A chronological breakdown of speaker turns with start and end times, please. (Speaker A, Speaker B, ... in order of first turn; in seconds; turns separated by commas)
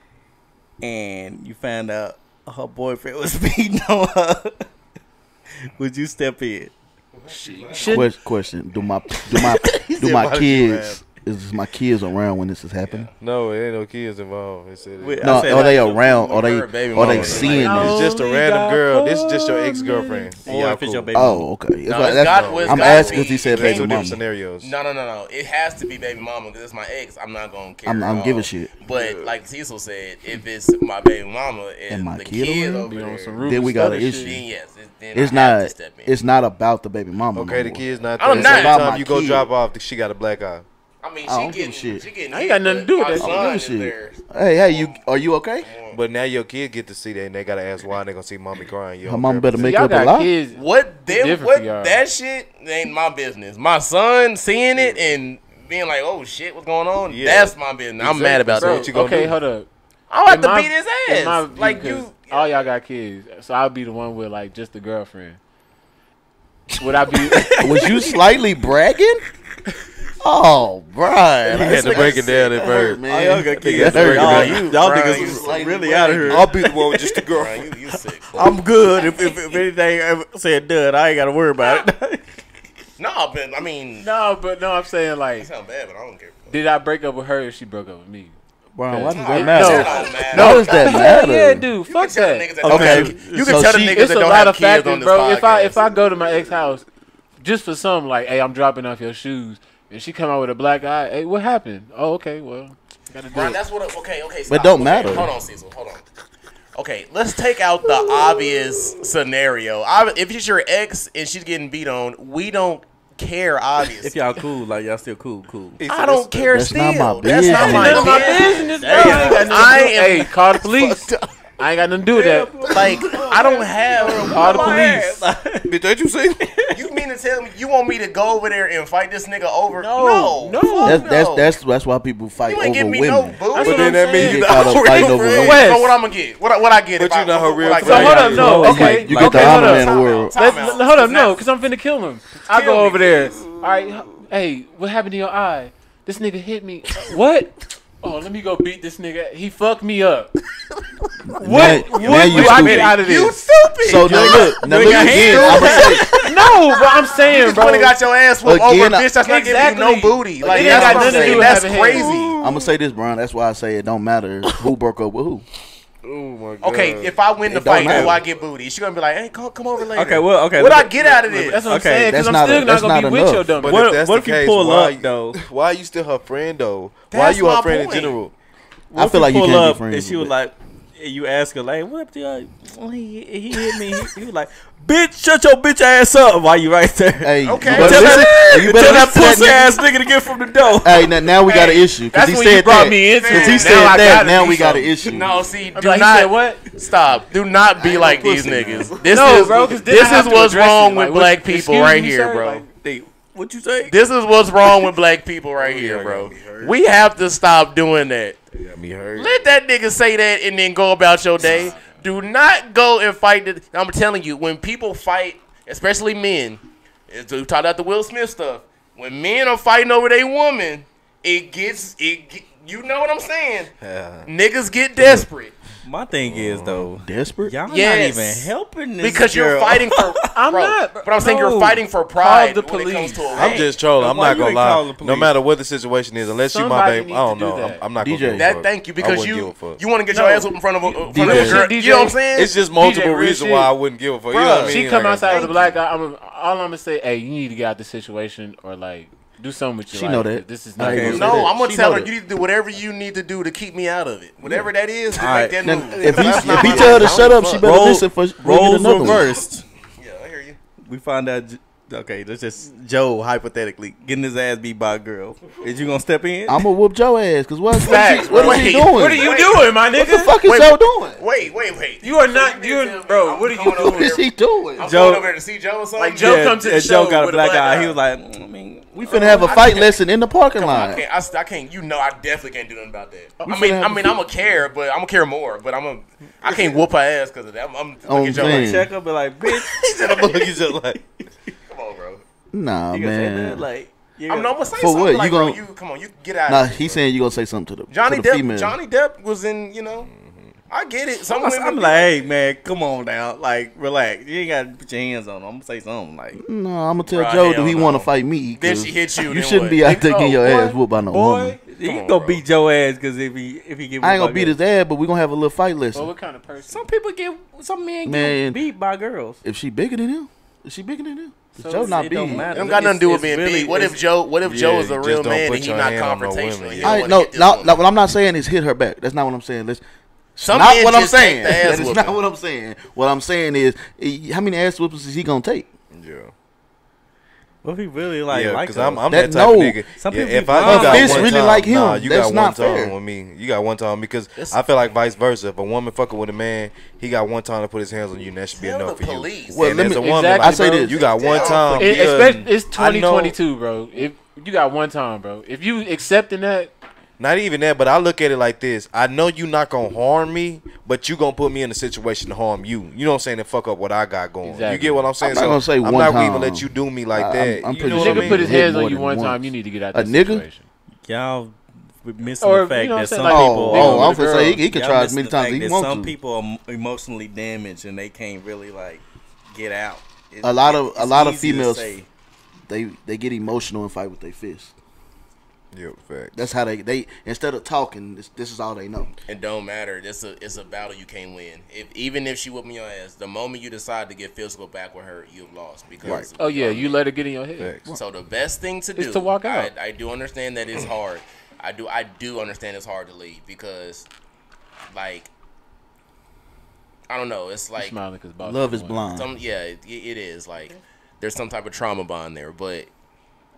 Speaker A: 0.8-4.7, Speaker A: 5.6-6.7, Speaker B: 7.3-8.1, Speaker C: 7.9-13.1, Speaker A: 9.3-10.0, Speaker D: 10.0-11.0, Speaker E: 12.9-13.1, Speaker D: 13.2-15.5, Speaker A: 15.0-15.9, Speaker C: 15.2-18.1, Speaker E: 15.5-18.1, Speaker D: 16.9-21.1, Speaker B: 17.5-20.4, Speaker A: 20.4-21.5, Speaker C: 21.1-24.2, Speaker E: 21.9-36.1, Speaker D: 22.2-24.7, Speaker C: 27.9-28.7, Speaker D: 28.9-29.3, Speaker C: 31.9-34.5, Speaker B: 32.9-34.4, Speaker C: 35.1-39.5, Speaker D: 37.4-40.7, Speaker E: 38.2-38.8, Speaker E: 41.0-45.0, Speaker C: 41.2-42.1, Speaker B: 42.3-43.5, Speaker C: 43.2-45.7, Speaker E: 45.6-46.0, Speaker D: 45.9-49.7, Speaker C: 49.0-50.3, Speaker B: 49.6-52.0, Speaker E: 50.5-58.9, Speaker D: 54.8-55.1, Speaker D: 57.1-59.4, Speaker B: 58.6-59.7, Speaker E: 60.1-62.7, Speaker B: 60.3-65.4, Speaker B: 66.8-67.6, Speaker A: 67.2-68.0, Speaker C: 67.6-69.2, Speaker C: 70.2-76.5, Speaker A: 71.5-72.3, Speaker D: 71.5-75.5, Speaker A: 73.1-77.3, Speaker E: 74.5-75.1, Speaker D: 76.2-77.7, Speaker E: 77.3-79.6, Speaker A: 78.3-82.2, Speaker E: 81.6-81.9, Speaker E: 83.0-84.1, Speaker B: 84.0-85.5, Speaker E: 85.4-86.6, Speaker B: 86.5-88.3, Speaker C: 88.7-91.7, Speaker B: 88.9-92.5, Speaker E: 89.0-91.1, Speaker E: 91.8-95.8, Speaker A: 92.6-93.5, Speaker C: 92.7-94.0, Speaker B: 93.9-96.8, Speaker B: 97.4-103.6, Speaker E: 103.3-106.0, Speaker C: 104.5-105.3, Speaker E: 106.8-114.3, Speaker A: 114.0-115.8, Speaker D: 115.8-116.5, Speaker E: 115.9-121.3, Speaker C: 116.5-118.6, Speaker B: 117.5-122.5, Speaker A: 118.0-119.8, Speaker A: 122.1-125.7, Speaker E: 122.7-125.2, Speaker B: 124.2-125.0, Speaker D: 125.7-126.5, Speaker A: 126.5-126.8, Speaker E: 126.7-131.5, Speaker B: 129.8-131.1, Speaker C: 130.8-133.4, Speaker E: 132.4-138.6, Speaker B: 133.5-136.0, Speaker D: 133.6-135.5, Speaker C: 134.1-135.6, Speaker D: 137.0-138.6, Speaker B: 137.8-150.3, Speaker A: 138.3-139.6, Speaker C: 138.4-140.3, Speaker E: 139.1-141.4, Speaker E: 142.5-143.8, Speaker C: 151.3-152.9, Speaker B: 151.4-153.4, Speaker A: 151.6-152.8, Speaker E: 151.6-156.5, Speaker C: 153.8-156.1, Speaker A: 154.1-156.0, Speaker B: 155.6-158.0, Speaker E: 157.1-162.4, Speaker C: 158.4-159.1, Speaker B: 159.2-162.2, Speaker C: 160.4-161.6, Speaker C: 162.4-165.4, Speaker D: 166.0-167.2, Speaker E: 166.6-171.7, Speaker C: 167.5-168.2, Speaker A: 167.7-168.2, Speaker A: 169.9-172.2, Speaker B: 171.3-173.8, Speaker C: 172.1-173.6, Speaker D: 173.6-178.3, Speaker A: 173.6-175.4, Speaker E: 177.1-178.2, Speaker A: 178.9-191.2, Speaker C: 178.9-180.3, Speaker C: 187.2-189.7, Speaker E: 187.4-189.5, Speaker C: 190.8-195.4, Speaker E: 191.5-191.8, Speaker B: 192.1-194.9, Speaker E: 193.1-202.7, Speaker B: 195.8-196.6, Speaker A: 197.9-199.3, Speaker B: 199.1-202.7, Speaker A: 202.8-204.0, Speaker E: 203.8-208.5, Speaker A: 204.6-204.9, Speaker D: 205.6-206.7, Speaker D: 208.6-209.5, Speaker E: 209.2-223.7, Speaker B: 211.4-211.9, Speaker D: 223.8-224.3, Speaker E: 224.3-225.6, Speaker A: 225.8-230.2, Speaker D: 226.2-226.9, Speaker C: 227.0-227.6, Speaker E: 227.7-233.7, Speaker B: 230.3-233.5, Speaker A: 233.3-235.3, Speaker D: 233.3-239.8, Speaker B: 236.4-237.8, Speaker C: 238.0-238.4, Speaker E: 238.3-242.5, Speaker B: 240.1-243.7, Speaker C: 241.0-241.6, Speaker D: 242.3-245.5, Speaker E: 244.3-245.8, Speaker B: 244.7-251.4, Speaker C: 249.9-252.1, Speaker A: 250.8-251.3, Speaker E: 250.9-257.7, Speaker A: 255.1-255.6, Speaker C: 255.6-259.3, Speaker D: 256.3-257.1, Speaker A: 256.5-259.6, Speaker E: 260.0-260.6, Speaker A: 260.8-266.6, Speaker C: 266.5-269.3, Speaker B: 267.7-270.4, Speaker E: 267.9-269.8, Speaker C: 269.9-271.2, Speaker E: 270.4-274.2, Speaker B: 272.0-274.2, Speaker C: 273.9-274.9, Speaker E: 274.8-276.6, Speaker A: 274.8-275.3, Speaker B: 276.0-277.9, Speaker A: 276.2-279.6, Speaker C: 278.9-281.0, Speaker E: 279.1-280.0, Speaker E: 280.5-288.9, Speaker C: 283.4-284.1, Speaker C: 286.4-286.9, Speaker C: 288.1-288.9, Speaker A: 288.4-291.2, Speaker E: 289.4-290.8, Speaker E: 291.7-292.2, Speaker C: 292.5-293.7, Speaker A: 292.9-294.7, Speaker E: 294.3-297.0, Speaker C: 294.8-295.6, Speaker C: 296.5-298.8, Speaker E: 297.9-300.1, Speaker D: 300.0-300.5, Speaker E: 300.7-302.3, Speaker A: 301.2-306.4, Speaker C: 306.3-311.6, Speaker E: 307.1-310.4, Speaker B: 310.1-311.6, Speaker A: 311.7-314.6, Speaker E: 311.8-312.4, Speaker C: 314.0-316.1, Speaker B: 315.9-316.9, Speaker A: 316.7-319.4, Speaker C: 318.1-318.6, Speaker C: 319.4-322.5, Speaker B: 321.6-322.6, Speaker A: 321.7-324.0, Speaker E: 322.5-327.8, Speaker D: 324.4-327.1, Speaker C: 326.8-329.8, Speaker C: 330.4-335.7, Speaker E: 330.4-332.2, Speaker D: 335.9-336.3, Speaker A: 337.6-339.2, Speaker D: 338.3-353.4, Speaker C: 339.1-339.9, Speaker A: 339.9-341.3, Speaker C: 340.6-343.0, Speaker E: 348.5-349.8, Speaker C: 349.5-351.2, Speaker B: 349.8-351.0, Speaker E: 350.7-352.2, Speaker B: 351.6-356.7, Speaker D: 357.2-368.5, Speaker B: 364.4-365.1, Speaker C: 365.2-370.5, Speaker B: 367.8-370.7, Speaker A: 371.1-382.1, Speaker B: 372.4-374.6, Speaker C: 373.2-376.1, Speaker C: 380.4-381.9, Speaker C: 382.7-384.7, Speaker D: 385.7-386.5, Speaker C: 386.3-389.1, Speaker E: 389.3-397.0, Speaker C: 396.0-396.3, Speaker B: 396.4-397.8, Speaker D: 397.6-398.0, Speaker E: 397.9-404.1, Speaker B: 398.9-399.7, Speaker E: 404.9-405.3, Speaker E: 407.1-408.0, Speaker B: 407.8-409.1, Speaker C: 408.4-409.3, Speaker E: 409.1-412.9